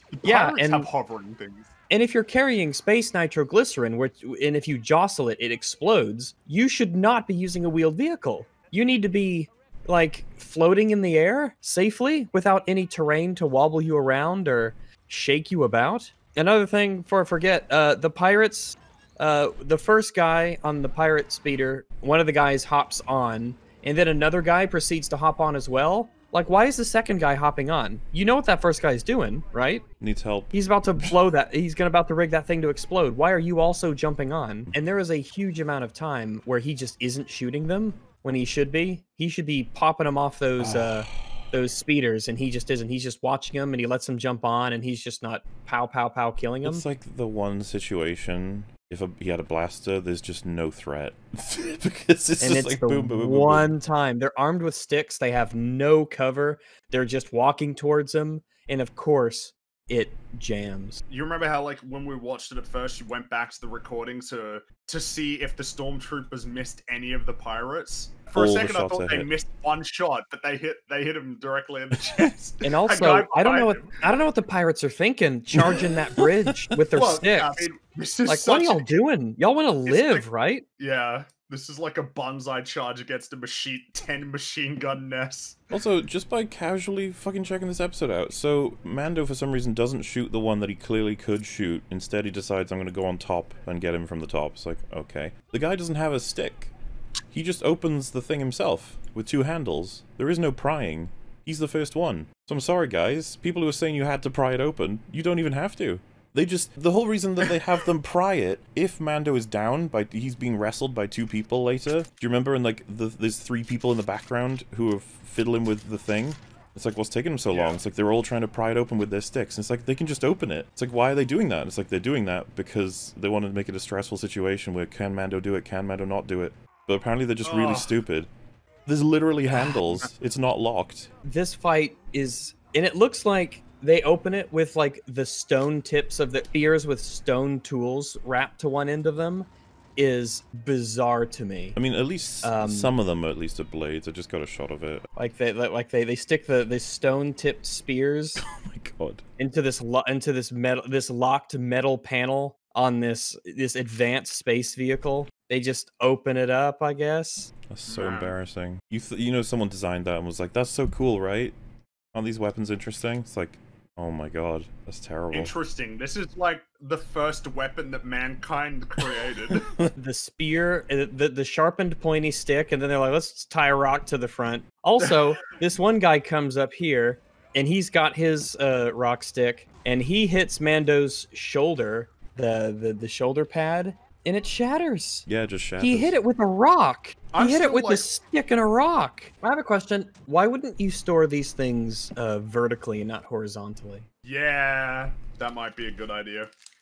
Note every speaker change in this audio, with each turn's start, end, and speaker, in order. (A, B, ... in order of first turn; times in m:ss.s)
0:00.1-0:01.7 A
0:00.2-0:00.9 B
0:01.9-0:29.8 B
0:30.0-0:31.1 C
0:30.5-0:46.8 B
0:40.6-0:41.4 C
0:46.6-0:53.7 C
0:52.4-1:01.0 B
1:01.1-1:14.0 A
1:08.3-1:09.3 C
1:12.6-1:17.7 B
1:15.5-1:16.5 C
1:16.9-1:18.9 A
1:18.2-1:20.6 B
1:19.8-1:20.2 A
1:20.8-1:25.6 A
1:25.7-1:36.7 C
1:37.3-2:08.3 C
1:57.5-1:57.8 A
2:07.4-2:07.9 A
2:08.8-2:11.1 C
2:11.2-2:21.8 B
2:21.7-2:25.0 C
2:22.4-2:22.9 B
2:25.2-2:28.4 B
2:28.4-2:29.2 C
2:29.4-2:37.5 B
2:37.7-2:41.6 C
2:37.9-2:38.3 A
2:42.1-2:45.6 C
2:45.3-2:49.6 A
2:49.5-2:49.9 C
2:50.0-3:05.2 B
3:05.2-3:06.2 C
3:05.8-3:14.0 B
3:07.3-3:08.0 A
3:14.2-3:16.5 A